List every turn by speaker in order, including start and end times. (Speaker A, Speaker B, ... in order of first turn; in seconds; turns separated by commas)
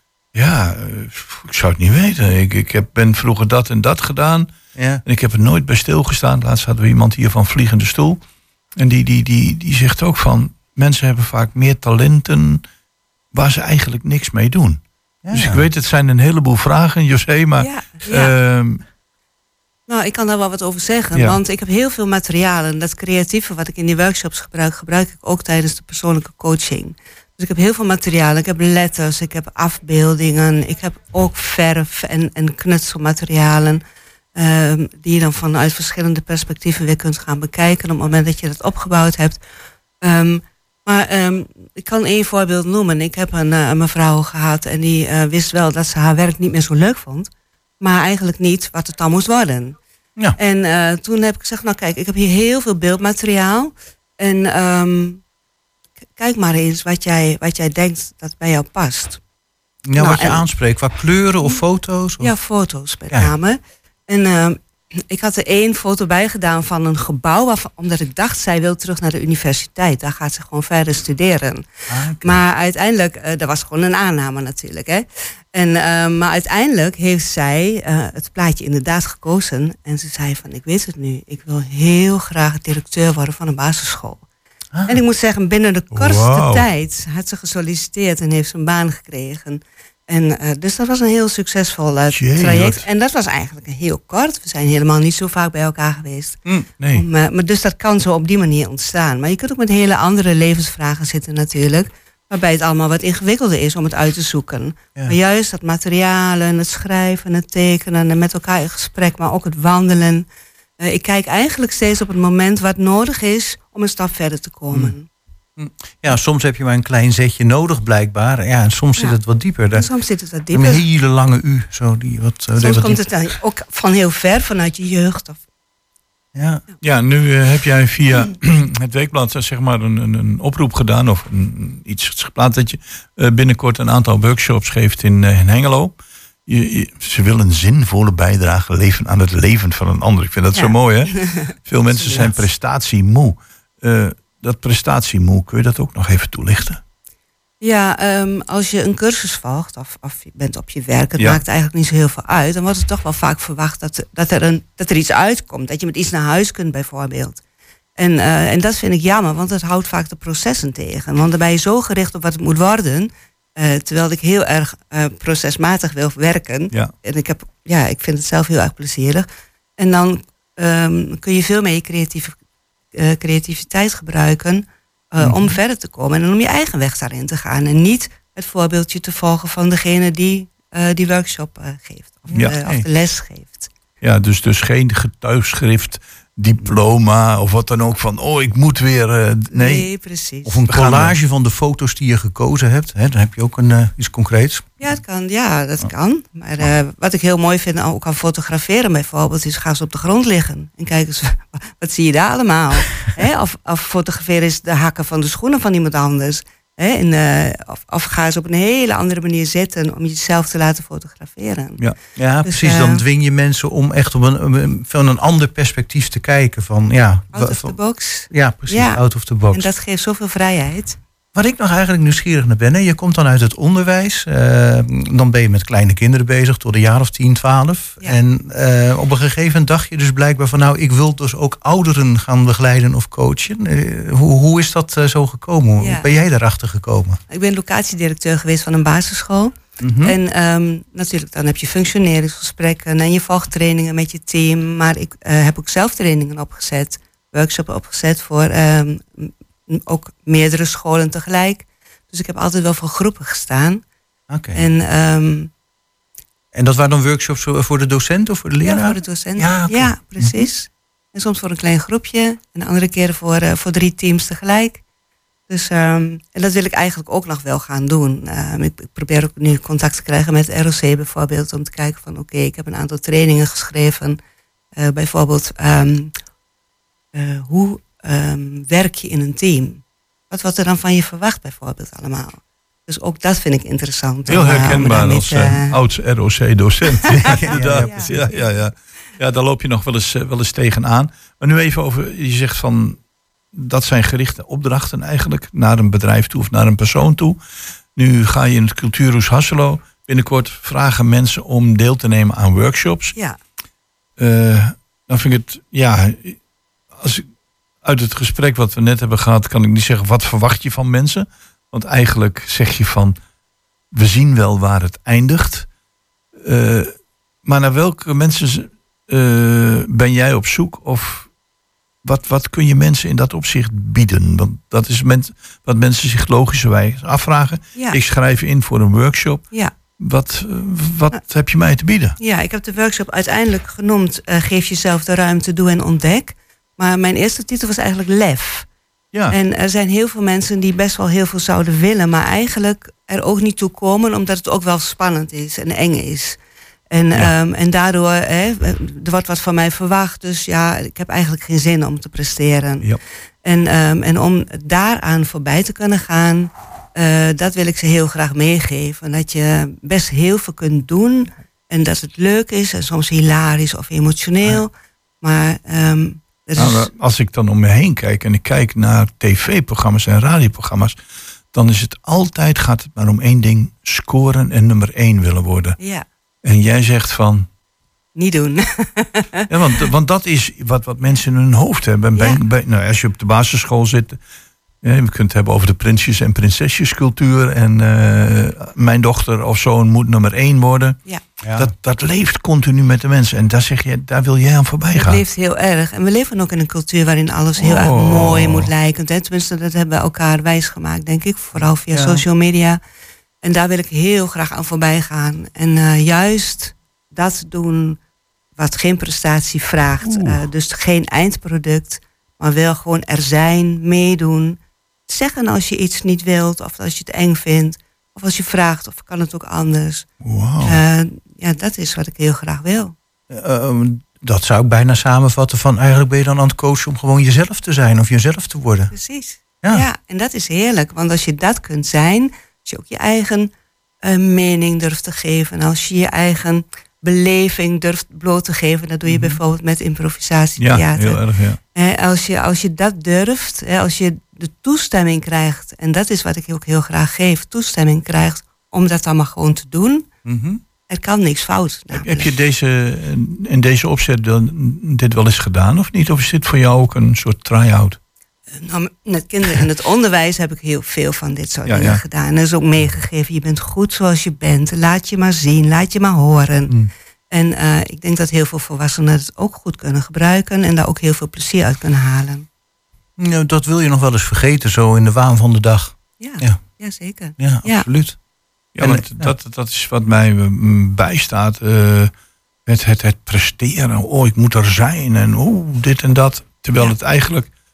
Speaker A: 0.3-4.5, Speaker B: 4.7-5.0, Speaker A: 5.0-8.2, Speaker A: 8.8-12.6, Speaker A: 13.3-14.8, Speaker B: 15.2-15.7, Speaker A: 15.3-18.8, Speaker C: 17.6-18.3, Speaker C: 19.9-33.8, Speaker C: 34.3-39.4, Speaker C: 40.0-49.8, Speaker C: 50.4-55.2, Speaker C: 56.2-59.2, Speaker B: 59.9-62.3, Speaker C: 60.0-60.5, Speaker C: 62.2-71.7, Speaker B: 71.9-72.4, Speaker C: 72.2-84.2, Speaker B: 84.7-85.0, Speaker C: 84.9-96.4, Speaker A: 85.9-86.7, Speaker A: 92.1-92.9, Speaker A: 96.8-97.0, Speaker C: 96.9-110.3, Speaker C: 110.8-115.1, Speaker B: 115.6-119.9, Speaker C: 119.7-120.9, Speaker B: 120.5-123.2, Speaker C: 122.5-125.4, Speaker B: 126.3-126.6, Speaker A: 126.8-141.1, Speaker C: 140.5-142.4, Speaker A: 141.7-146.8, Speaker C: 147.6-157.4, Speaker C: 158.0-169.3, Speaker C: 169.8-172.3, Speaker C: 172.9-183.7, Speaker B: 175.2-175.6, Speaker B: 182.4-182.9, Speaker A: 184.0-189.9, Speaker C: 189.5-190.6, Speaker B: 190.4-194.7, Speaker A: 190.7-191.2, Speaker C: 194.8-211.8, Speaker B: 212.2-217.8, Speaker C: 212.4-213.1, Speaker C: 217.3-221.0, Speaker B: 218.3-219.7, Speaker B: 221.3-237.2, Speaker C: 235.8-236.1, Speaker C: 237.3-253.8, Speaker B: 239.8-240.2, Speaker B: 254.3-254.7, Speaker C: 254.5-255.5, Speaker B: 256.5-260.5, Speaker C: 258.6-264.8, Speaker C: 265.5-274.2, Speaker C: 274.8-276.1, Speaker C: 277.1-285.8, Speaker A: 284.3-293.0, Speaker C: 286.9-288.5, Speaker B: 287.5-288.1, Speaker A: 293.5-297.4, Speaker A: 297.9-303.1, Speaker C: 303.1-303.4, Speaker A: 304.2-306.4, Speaker A: 306.9-307.3, Speaker A: 307.8-313.2, Speaker A: 313.9-315.7, Speaker A: 316.4-316.9, Speaker A: 317.4-321.3, Speaker A: 322.0-329.4, Speaker A: 330.0-332.2, Speaker C: 332.2-338.7, Speaker C: 339.3-346.4, Speaker C: 346.9-352.9, Speaker C: 353.4-364.7, Speaker C: 365.2-366.9, Speaker A: 366.6-371.0, Speaker A: 371.5-375.8, Speaker C: 375.8-376.1, Speaker A: 376.4-377.5, Speaker C: 378.1-379.5, Speaker A: 379.5-384.2, Speaker A: 384.8-391.0, Speaker B: 391.4-391.7, Speaker A: 391.6-395.2, Speaker C: 394.9-402.8, Speaker A: 397.6-398.7, Speaker B: 401.9-402.2, Speaker C: 403.4-408.0, Speaker C: 408.6-420.1, Speaker B: 410.1-410.3, Speaker B: 420.3-420.8, Speaker C: 420.6-422.9, Speaker B: 423.3-428.9, Speaker C: 428.9-433.5, Speaker C: 434.0-441.2, Speaker A: 439.1-439.4, Speaker A: 440.6-441.6, Speaker C: 441.7-450.1, Speaker A: 450.3-450.6, Speaker C: 450.9-452.4, Speaker A: 451.9-458.0, Speaker C: 458.5-466.7, Speaker A: 461.6-462.0, Speaker C: 467.3-472.5, Speaker B: 473.2-476.7, Speaker C: 476.2-477.9, Speaker B: 477.4-478.2, Speaker A: 478.7-482.1, Speaker B: 478.8-479.3, Speaker A: 482.7-487.5